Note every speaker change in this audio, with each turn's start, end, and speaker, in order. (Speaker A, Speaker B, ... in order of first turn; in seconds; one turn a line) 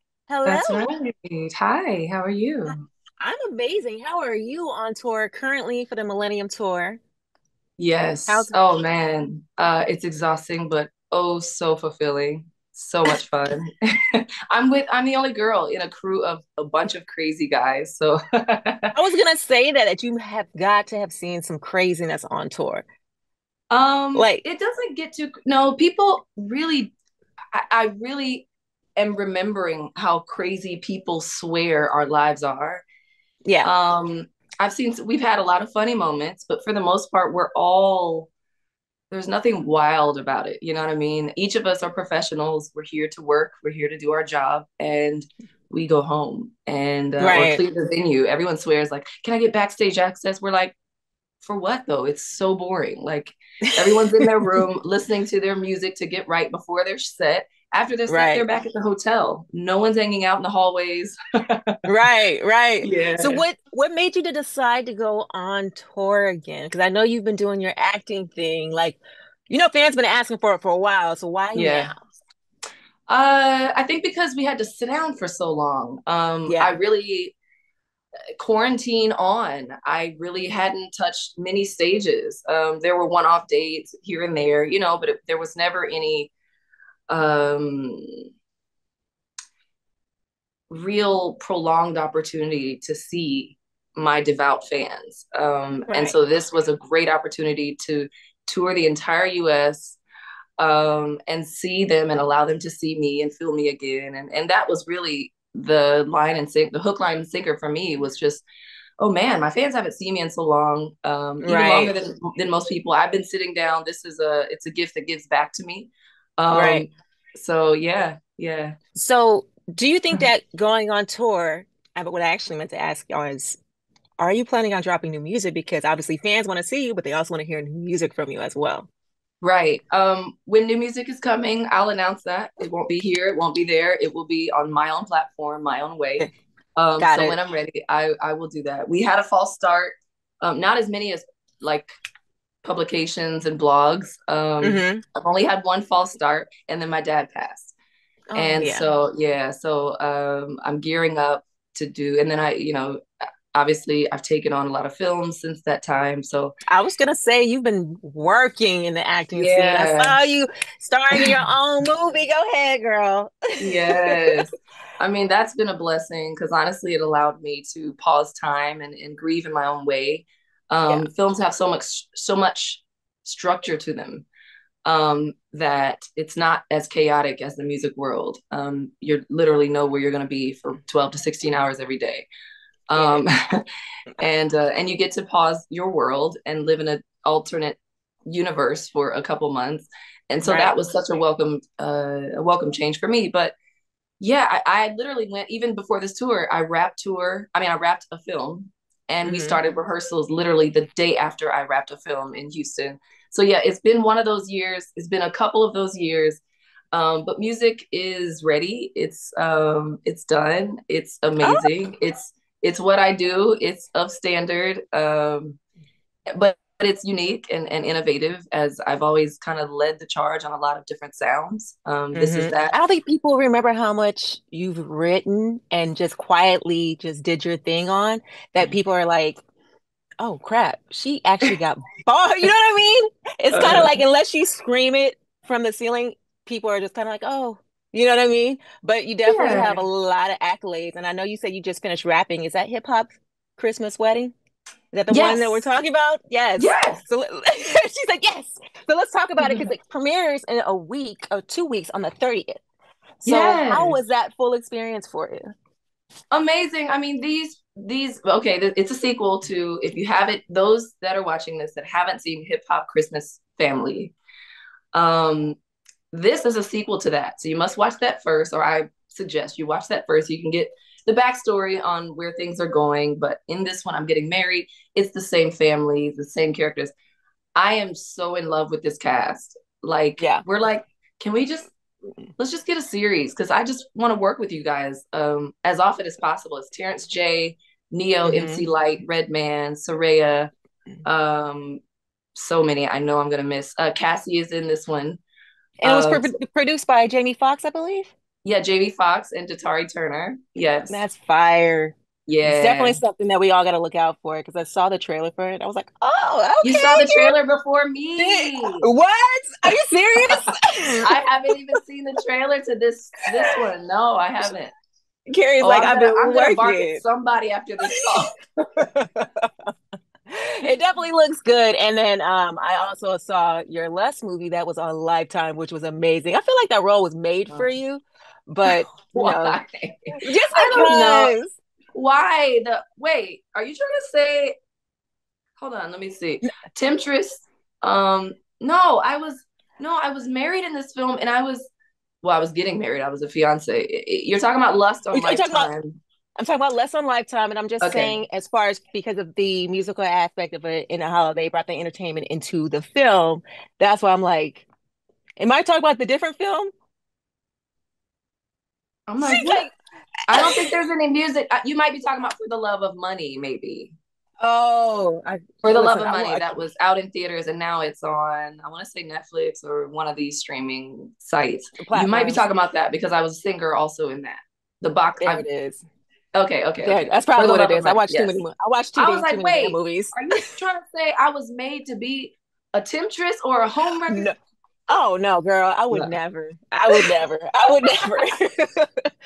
Speaker A: 0.3-0.9
Speaker B: 0.4-2.7
Speaker A: 3.2-7.0
Speaker B: 7.8-18.9
Speaker A: 8.3-8.6
Speaker A: 18.9-22.8
Speaker B: 23.7-26.9
Speaker A: 24.1-24.4
Speaker B: 27.5-32.8
Speaker A: 33.4-33.7
Speaker B: 33.6-38.3
Speaker B: 39.1-50.8
Speaker A: 47.2-47.6
Speaker B: 51.4-61.8
Speaker A: 53.7-54.0
Speaker A: 58.1-58.5
Speaker A: 61.8-72.0
Speaker B: 62.8-63.4
Speaker B: 71.5-71.9
Speaker B: 73.1-77.3
Speaker A: 76.5-76.7
Speaker B: 78.4-86.3
Speaker B: 87.1-88.0
Speaker B: 90.7-100.0
Speaker A: 95.9-96.1
Speaker B: 100.6-108.4
Speaker B: 109.0-118.8
Speaker A: 111.4-111.9
Speaker A: 116.5-116.8
Speaker A: 118.9-123.6
Speaker A: 124.2-128.9
Speaker B: 129.4-141.9
Speaker A: 137.0-137.3
Speaker B: 142.6-147.7
Speaker A: 144.6-145.0
Speaker A: 148.3-148.8
Speaker B: 148.3-153.0
Speaker B: 153.5-156.5
Speaker A: 156.7-164.4
Speaker B: 159.3-160.2
Speaker B: 163.6-174.3
Speaker B: 174.8-182.3
Speaker B: 182.9-183.4
Speaker A: 182.9-183.2
Speaker B: 184.2-193.5
Speaker A: 190.4-190.7
Speaker B: 194.2-206.4
Speaker A: 199.2-199.6
Speaker B: 206.9-215.6
Speaker A: 211.4-211.7
Speaker B: 216.3-222.8
Speaker A: 222.1-229.4
Speaker A: 230.2-244.3
Speaker B: 233.5-233.9
Speaker B: 239.2-239.8
Speaker A: 244.9-252.6
Speaker B: 245.1-245.7
Speaker B: 246.6-247.0
Speaker B: 249.4-249.7
Speaker A: 253.2-255.5
Speaker B: 253.2-254.0
Speaker B: 256.3-264.1
Speaker B: 264.9-265.6
Speaker B: 266.1-276.9
Speaker B: 277.5-281.7
Speaker A: 280.2-280.4
Speaker B: 282.4-290.5
Speaker A: 288.2-288.7
Speaker B: 291.0-291.8
Speaker B: 292.3-295.2
Speaker A: 295.8-298.1
Speaker B: 295.8-296.3
Speaker B: 298.4-301.0
Speaker A: 300.9-307.3
Speaker B: 302.3-303.0
Speaker B: 306.6-308.9
Speaker A: 308.2-311.1
Speaker B: 311.0-314.7
Speaker A: 315.3-317.0
Speaker B: 315.6-318.4
Speaker A: 317.9-318.3
Speaker A: 318.8-319.7
Speaker A: 320.3-329.6
Speaker B: 328.6-331.3
Speaker A: 330.1-331.6
Speaker B: 331.9-334.5
Speaker B: 335.6-341.7
Speaker B: 342.2-346.0
Speaker A: 345.1-345.7
Speaker A: 346.4-354.6
Speaker B: 347.8-348.2
Speaker A: 355.4-356.7
Speaker B: 359.1-359.7
Speaker A: 359.2-359.7
Speaker B: 360.3-363.9
Speaker A: 360.3-360.7
Speaker A: 364.4-366.6
Speaker B: 365.6-375.4
Speaker A: 371.8-372.4
Speaker A: 375.2-375.8
Speaker B: 376.3-378.4
Speaker A: 376.8-380.2
Speaker B: 378.9-384.3
Speaker A: 384.1-384.3
Speaker A: 384.9-389.1
Speaker B: 386.9-387.1